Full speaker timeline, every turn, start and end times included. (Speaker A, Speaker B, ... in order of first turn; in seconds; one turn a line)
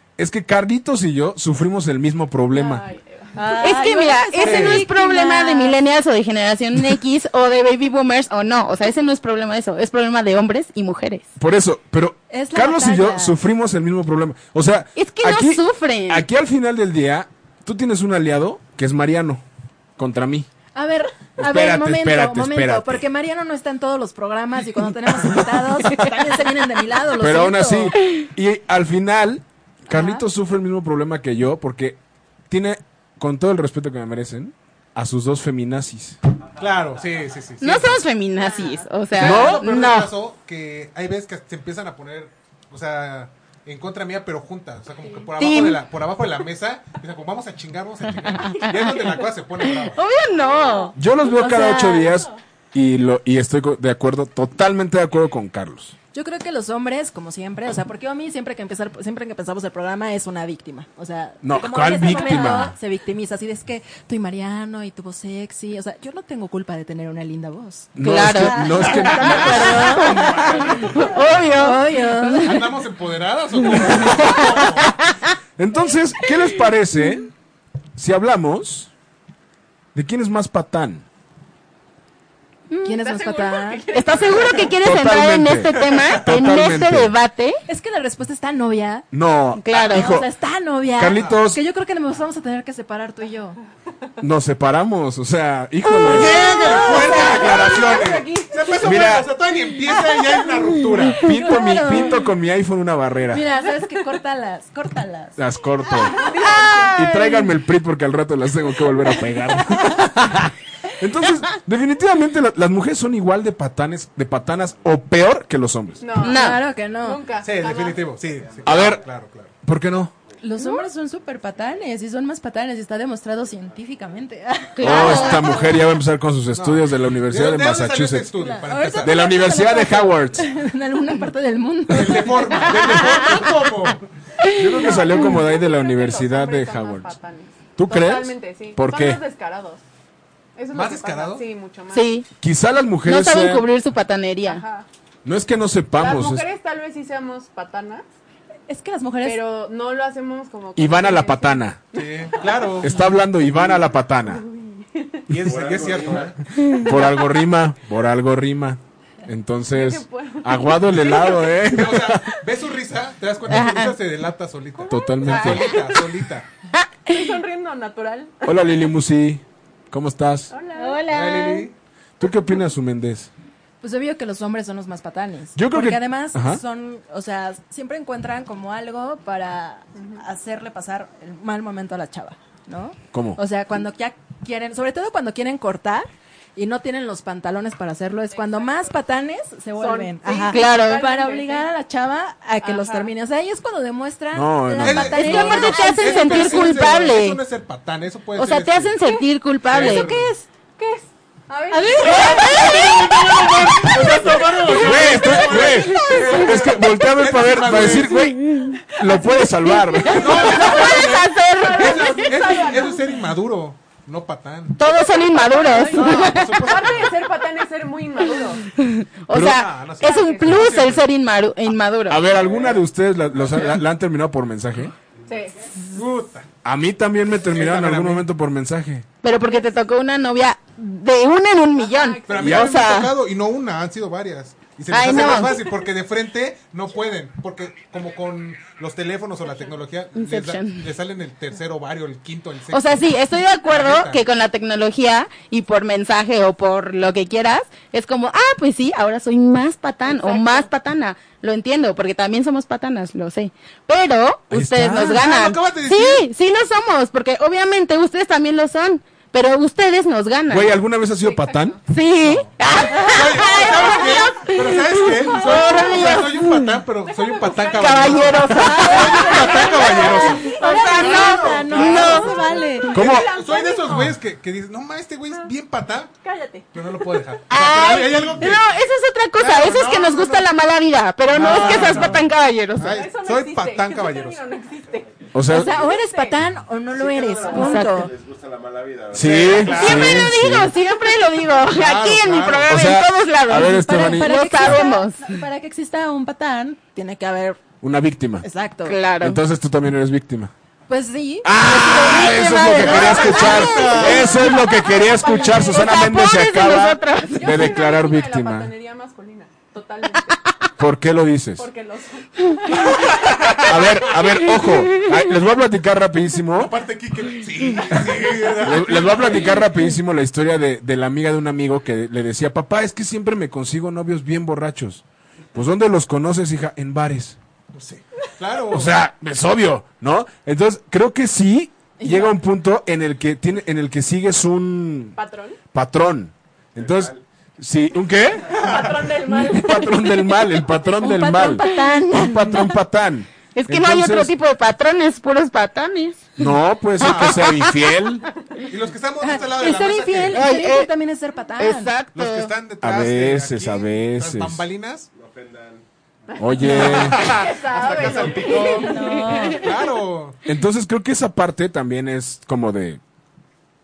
Speaker A: 0.2-2.9
Speaker B: 2.5-3.5
Speaker C: 3.4-5.8
Speaker D: 3.6-11.3
Speaker E: 4.4-4.8
Speaker A: 11.4-19.4
Speaker C: 12.3-13.4
Speaker D: 15.0-16.2
Speaker A: 20.0-20.5
Speaker C: 20.8-28.0
Speaker A: 21.4-23.0
Speaker A: 25.2-25.6
Speaker A: 27.2-36.2
Speaker C: 29.9-30.2
Speaker E: 36.6-38.1
Speaker D: 37.6-40.1
Speaker B: 38.4-38.9
Speaker E: 39.1-50.1
Speaker A: 39.1-39.6
Speaker D: 45.4-45.8
Speaker B: 48.5-48.9
Speaker D: 48.5-49.1
Speaker D: 49.6-51.0
Speaker B: 50.4-52.4
Speaker A: 51.0-56.0
Speaker C: 51.4-52.1
Speaker C: 56.1-70.7
Speaker A: 61.4-62.7
Speaker A: 68.0-70.7
Speaker D: 68.0-72.4
Speaker E: 70.6-71.0
Speaker C: 71.5-72.6
Speaker E: 72.4-75.0
Speaker D: 74.2-75.2
Speaker A: 75.6-77.3
Speaker A: 78.0-78.9
Speaker A: 80.0-81.0
Speaker D: 82.7-83.0
Speaker C: 82.8-83.8
Speaker B: 83.0-84.7
Speaker D: 83.9-87.6
Speaker A: 84.8-87.1
Speaker E: 85.9-86.2
Speaker C: 87.7-89.1
Speaker A: 89.1-90.3
Speaker D: 89.6-90.2
Speaker C: 89.9-93.6
Speaker A: 91.0-91.6
Speaker A: 94.2-96.5
Speaker E: 96.0-101.2
Speaker B: 96.1-98.8
Speaker A: 98.8-99.3
Speaker A: 101.2-103.4
Speaker C: 101.2-102.2
Speaker C: 103.3-107.1
Speaker A: 105.4-106.2
Speaker B: 106.1-107.0
Speaker A: 107.0-116.0
Speaker B: 116.0-118.1
Speaker D: 116.2-116.6
Speaker C: 116.2-117.2
Speaker E: 117.4-119.5
Speaker A: 118.7-119.0
Speaker A: 119.6-120.1
Speaker C: 120.4-125.7
Speaker D: 124.8-125.7
Speaker A: 124.8-128.3
Speaker E: 126.5-129.3
Speaker C: 128.4-132.7
Speaker A: 129.0-130.5
Speaker E: 131.9-134.1
Speaker D: 134.5-135.3
Speaker A: 134.5-137.2
Speaker B: 135.2-139.8
Speaker A: 137.8-139.2
Speaker B: 140.6-142.1
Speaker E: 140.7-141.4
Speaker D: 141.9-142.3
Speaker A: 142.4-143.7
Speaker D: 143.1-144.6
Speaker B: 144.4-144.9
Speaker A: 145.2-146.5
Speaker B: 145.9-148.1
Speaker C: 148.7-149.4
Speaker B: 149.2-151.7
Speaker A: 150.8-151.8
Speaker E: 151.9-152.9
Speaker A: 152.8-154.4
Speaker B: 154.3-155.2
Speaker E: 155.3-156.5
Speaker A: 155.3-155.6
Speaker F: 155.4-156.4
Speaker A: 156.7-162.3
Speaker B: 159.7-161.6
Speaker E: 161.6-166.5
Speaker D: 163.5-164.0
Speaker B: 164.8-165.8
Speaker A: 164.9-165.7
Speaker D: 165.3-166.0
Speaker D: 166.8-167.1
Speaker B: 167.1-168.3
Speaker A: 168.4-170.5
Speaker B: 170.5-171.1
Speaker D: 170.8-171.7
Speaker E: 171.1-171.7
Speaker A: 172.2-173.3
Speaker C: 173.8-196.7
Speaker A: 175.6-176.6
Speaker A: 183.1-183.4
Speaker B: 188.3-189.0
Speaker B: 189.8-191.7
Speaker D: 190.5-191.1
Speaker B: 192.6-193.1
Speaker A: 194.3-195.3
Speaker E: 194.8-199.0
Speaker D: 195.1-197.4
Speaker D: 198.3-200.1
Speaker E: 199.6-200.3
Speaker C: 199.8-200.5
Speaker B: 200.8-202.8
Speaker C: 201.7-202.7
Speaker D: 202.0-203.2
Speaker E: 202.3-208.2
Speaker A: 203.7-210.4
Speaker C: 204.0-204.4
Speaker D: 206.2-206.6
Speaker D: 208.2-208.8
Speaker D: 209.9-212.7
Speaker E: 210.0-214.8
Speaker B: 210.5-213.2
Speaker D: 214.8-216.7
Speaker E: 215.4-217.2
Speaker B: 216.5-218.7
Speaker D: 218.7-222.3
Speaker A: 219.3-219.6
Speaker E: 219.3-221.1
Speaker B: 220.0-220.7
Speaker A: 222.1-224.9
Speaker E: 223.5-223.8
Speaker B: 225.3-225.6
Speaker E: 225.9-226.5
Speaker A: 226.6-229.1
Speaker E: 227.3-228.3
Speaker D: 229.2-233.2
Speaker B: 231.8-232.6
Speaker E: 232.3-244.2
Speaker A: 232.4-232.7
Speaker D: 234.9-235.7
Speaker D: 240.2-240.9
Speaker D: 242.7-260.7
Speaker B: 250.1-250.7
Speaker A: 254.5-255.2
Speaker E: 255.0-256.3
Speaker A: 260.5-261.8
Speaker B: 261.1-261.8
Speaker D: 261.9-266.8
Speaker E: 262.2-276.1
Speaker C: 262.9-263.2
Speaker B: 263.5-264.0
Speaker B: 265.5-266.2
Speaker B: 267.1-274.1
Speaker D: 267.8-272.4
Speaker C: 268.9-269.5
Speaker C: 270.4-272.9
Speaker A: 272.9-273.3
Speaker B: 276.2-277.1
Speaker E: 276.7-278.7
Speaker D: 277.5-283.0
Speaker E: 279.3-280.5
Speaker E: 281.3-284.4
Speaker B: 281.4-281.8
Speaker B: 282.8-286.4
Speaker A: 285.3-285.8
Speaker C: 285.5-288.1
Speaker F: 286.9-290.0
Speaker D: 287.5-288.1
Speaker A: 289.1-290.7
Speaker E: 289.2-290.4
Speaker D: 289.7-295.4
Speaker E: 291.6-292.9
Speaker A: 292.7-294.8
Speaker C: 293.9-297.6
Speaker A: 297.8-298.4
Speaker C: 298.4-299.0
Speaker D: 298.9-299.4
Speaker A: 299.2-300.5
Speaker C: 300.9-302.6
Speaker A: 301.4-308.7
Speaker D: 301.8-304.1
Speaker E: 302.7-304.4
Speaker B: 303.4-306.1
Speaker D: 305.7-307.7
Speaker B: 307.3-310.4
Speaker A: 310.8-311.7
Speaker B: 311.6-313.2
Speaker E: 313.0-313.8
Speaker A: 313.6-316.7
Speaker D: 314.5-315.1
Speaker E: 316.5-319.7
Speaker A: 317.9-325.0
Speaker A: 325.5-327.4
Speaker E: 327.7-328.9
Speaker A: 328.7-335.2
Speaker C: 332.0-332.4
Speaker B: 335.2-335.6
Speaker A: 335.7-338.7
Speaker F: 336.8-337.2
Speaker B: 338.5-340.2
Speaker E: 338.5-338.9
Speaker A: 339.3-344.3
Speaker C: 341.0-342.3
Speaker D: 341.5-342.5
Speaker D: 343.6-346.3
Speaker A: 346.4-348.2
Speaker E: 347.0-347.6
Speaker D: 347.1-347.6
Speaker E: 348.7-350.5
Speaker C: 349.2-351.9
Speaker D: 350.3-350.9
Speaker D: 351.6-352.5
Speaker E: 352.1-355.1
Speaker A: 352.8-354.6
Speaker F: 355.1-356.4
Speaker B: 356.3-359.7
Speaker A: 356.4-357.3
Speaker E: 356.7-359.0
Speaker C: 358.8-359.6
Speaker D: 358.9-359.8
Speaker E: 359.5-360.4
Speaker A: 360.4-363.0